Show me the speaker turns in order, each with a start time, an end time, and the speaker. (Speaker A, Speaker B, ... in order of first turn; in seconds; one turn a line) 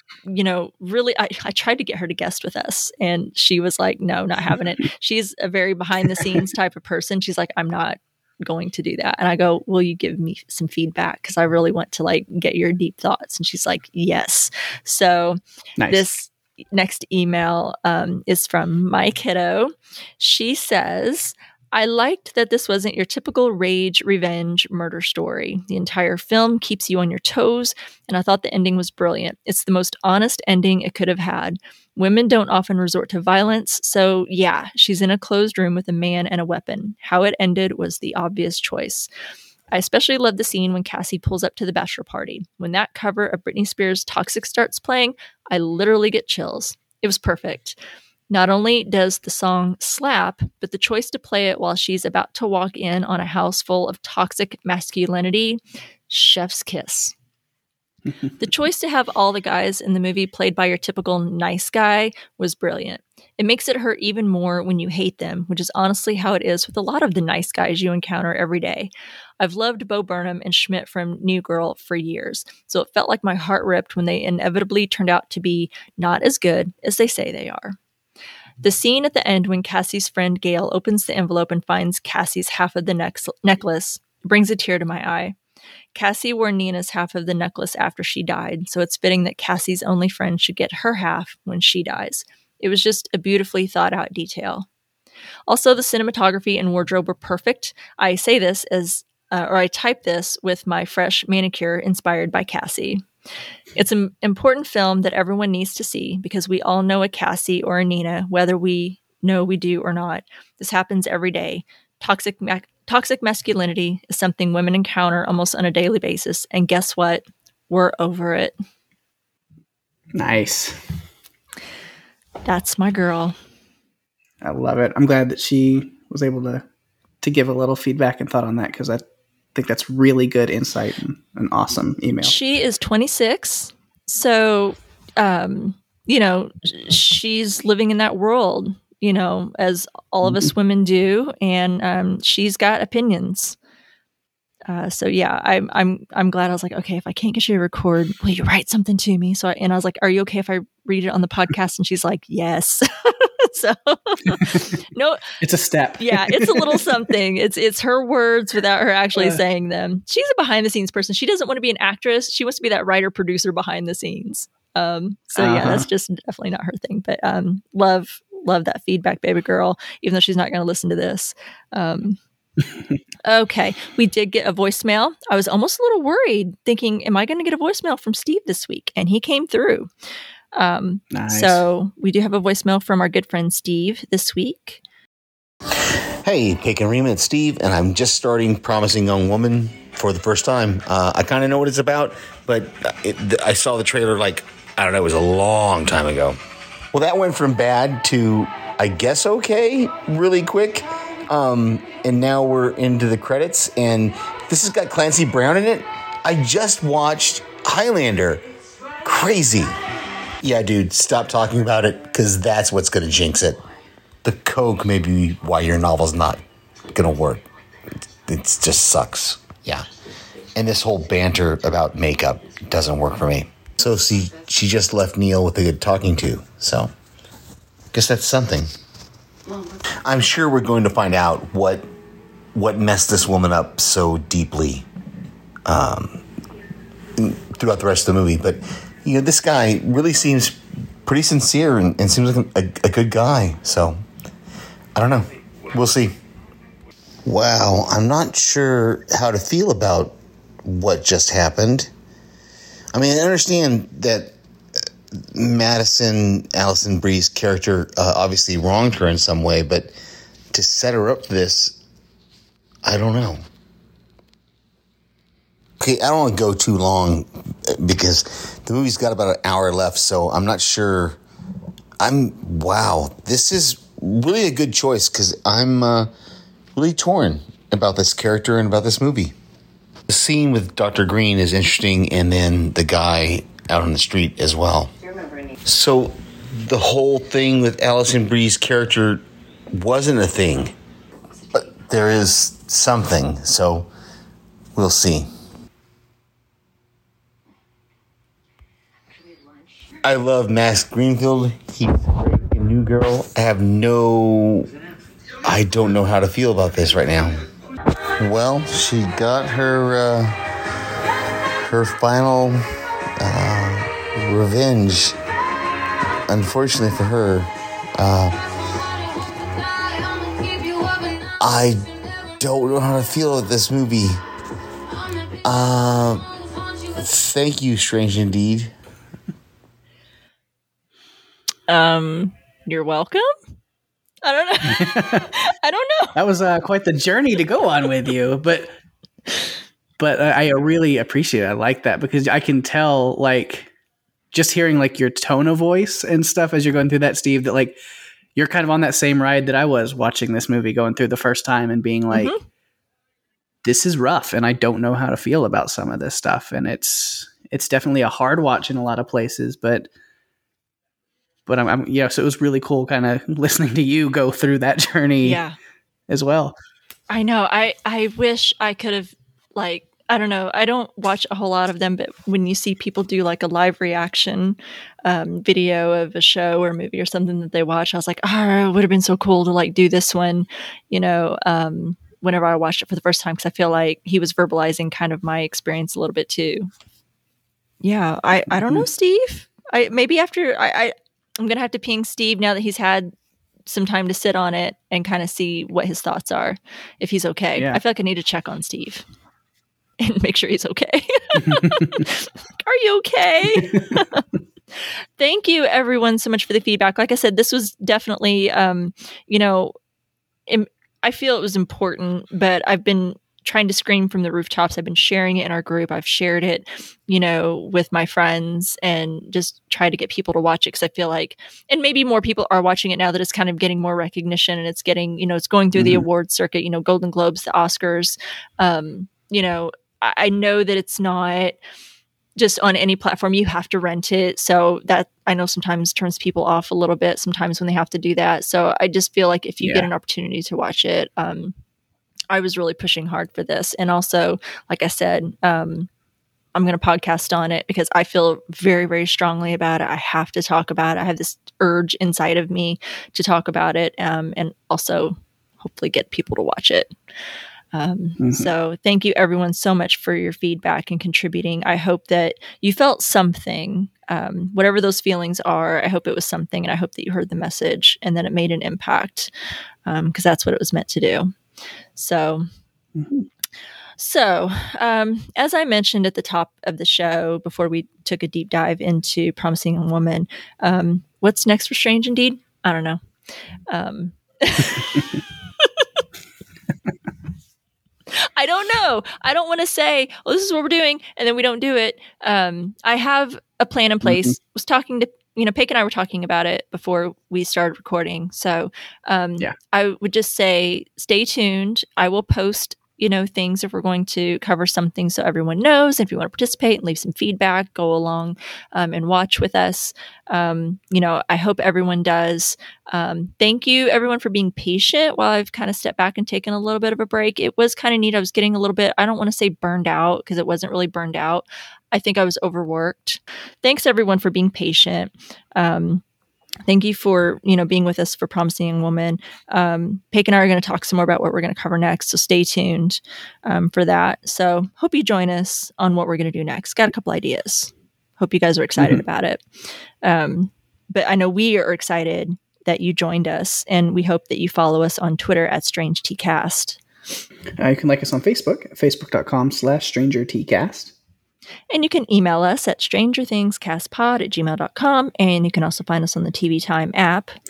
Speaker A: 0.3-15.4
Speaker B: 15.8-16.1
Speaker A: 15.9-39.1
Speaker A: 39.7-47.8
Speaker A: 48.3-57.1
Speaker A: 58.4-77.8
Speaker A: 78.6-85.4
Speaker A: 85.9-94.7
Speaker A: 95.5-103.0
Speaker A: 103.8-118.5
Speaker B: 120.1-120.8
Speaker A: 122.5-123.4
Speaker B: 124.4-126.6
Speaker B: 127.2-129.0
Speaker B: 129.6-132.3
Speaker A: 132.2-143.6
Speaker A: 144.7-155.3
Speaker B: 154.3-154.6
Speaker B: 155.4-157.0
Speaker A: 156.0-172.2
Speaker B: 159.2-159.4
Speaker B: 165.4-165.9
Speaker A: 173.2-179.9
Speaker A: 180.6-184.8
Speaker B: 181.1-181.6
Speaker C: 186.2-196.4
Speaker C: 196.9-208.4
Speaker C: 209.0-209.7
Speaker C: 210.4-213.6
Speaker C: 214.2-217.4
Speaker C: 218.3-219.9
Speaker C: 220.6-226.9
Speaker C: 227.9-228.7
Speaker C: 230.0-231.8
Speaker C: 232.6-234.8
Speaker C: 235.7-236.2
Speaker C: 237.2-244.0
Speaker C: 244.9-246.2
Speaker C: 247.2-251.9
Speaker C: 252.9-254.3
Speaker C: 255.3-259.9
Speaker C: 260.5-261.8
Speaker C: 262.9-263.4
Speaker C: 265.8-271.2
Speaker C: 272.0-276.1
Speaker C: 276.8-279.3
Speaker C: 280.1-290.7
Speaker C: 291.5-293.9
Speaker C: 294.8-295.3
Speaker C: 300.0-304.7
Speaker C: 305.4-307.4
Speaker C: 308.2-310.4
Speaker C: 311.6-312.6
Speaker C: 313.2-315.2
Speaker C: 316.3-318.4
Speaker C: 321.4-324.2
Speaker C: 325.4-326.3
Speaker C: 326.9-328.7
Speaker A: 331.7-333.3
Speaker A: 334.2-336.1
Speaker B: 334.6-335.3
Speaker B: 336.1-338.7
Speaker B: 340.0-343.7
Speaker B: 344.3-347.8
Speaker B: 348.4-352.3
Speaker A: 352.1-352.4
Speaker B: 353.6-359.9
Speaker B: 361.5-365.4
Speaker A: 365.2-365.6
Speaker B: 366.1-366.6
Speaker A: 367.1-386.7
Speaker A: 387.8-393.1
Speaker B: 388.5-388.9
Speaker A: 393.7-399.1
Speaker A: 400.0-404.2
Speaker B: 401.4-402.0
Speaker B: 403.6-404.0
Speaker A: 405.2-409.7
Speaker A: 410.5-431.6
Speaker B: 425.8-426.0
Speaker A: 432.4-441.6
Speaker B: 439.6-439.9
Speaker A: 442.3-445.9
Speaker A: 446.6-456.9
Speaker A: 457.7-469.3
Speaker B: 458.2-458.5
Speaker A: 469.9-471.3
Speaker A: 472.0-472.5
Speaker B: 473.0-473.3
Speaker A: 474.0-483.0
Speaker A: 483.7-485.9
Speaker A: 488.1-526.0
Speaker B: 494.0-494.4
Speaker A: 526.7-539.4
Speaker A: 540.0-546.8
Speaker B: 547.6-550.9
Speaker A: 551.7-557.4